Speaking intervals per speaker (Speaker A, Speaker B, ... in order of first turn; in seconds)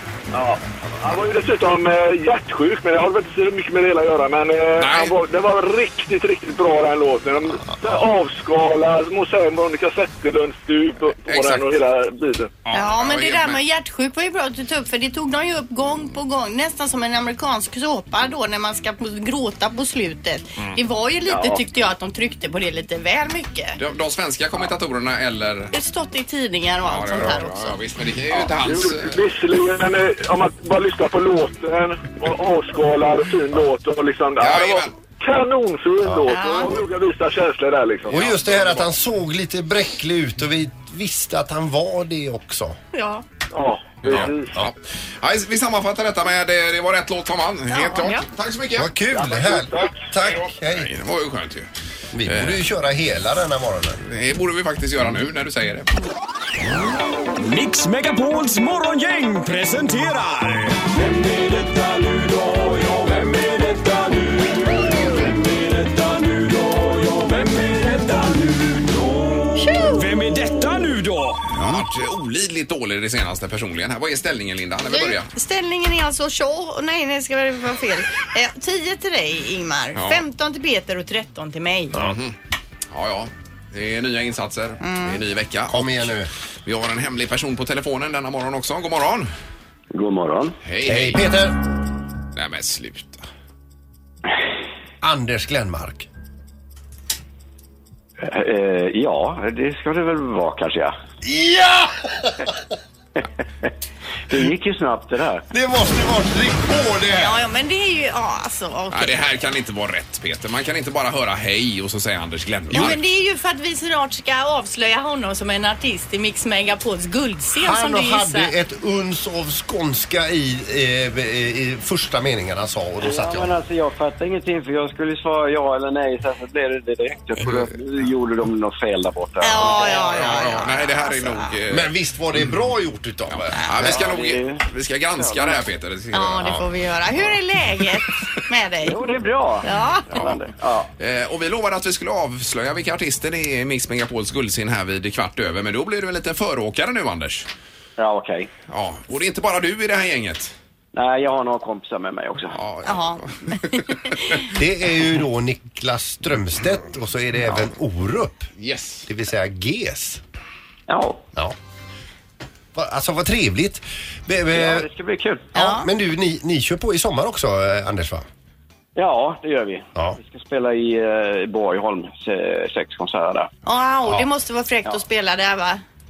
Speaker A: 0.3-12.5, 28.3-38.2, 43.5-44.5, 49.1-50.0
Speaker B: 4.8-5.2, 11.2-11.6, 12.6-13.6, 23.8-25.7, 26.8-29.1, 34.4-34.9, 38.1-38.8, 44.0-48.9, 50.6-51.7, 52.2-52.6, 54.0-55.9, 71.5-75.3, 79.9-80.2, 81.9-82.3, 82.9-86.1, 86.6-89.3, 90.6-91.2, 92.3-93.2, 108.9-113.0, 129.6-131.9, 133.3-136.7, 140.1-140.4, 141.0-147.5, 148.7-150.5, 152.5-154.2, 158.6-159.1
Speaker C: 12.7-23.8, 25.7-27.7, 36.3-36.7, 42.9-43.2, 47.7-48.2, 69.6-70.1, 74.9-81.9, 84.8-85.2, 107.2-109.2, 112.7-118.5, 129.4-131.5, 136.1-139.0, 139.6-140.2, 152.8-154.4, 165.5-165.9, 173.6-175.8
Speaker D: 38.1-42.8, 44.1-44.7, 48.8-50.9, 52.1-54.0, 85.7-86.3, 90.8-91.6, 95.0-96.1, 101.2-102.5, 105.5-107.4, 117.6-123.5, 131.7-134.1, 154.5-158.5, 159.1-160.2, 162.7-164.9, 165.5-168.2
Speaker E: 57.4-71.4
Speaker F: 89.9-90.6, 98.2-100.9, 103.2-103.7, 104.3-105.5, 123.0-130.4, 133.8-135.6, 138.8-140.9, 148.0-148.5, 150.9-152.6, 160.9-161.2, 164.5-165.5, 168.9-173.5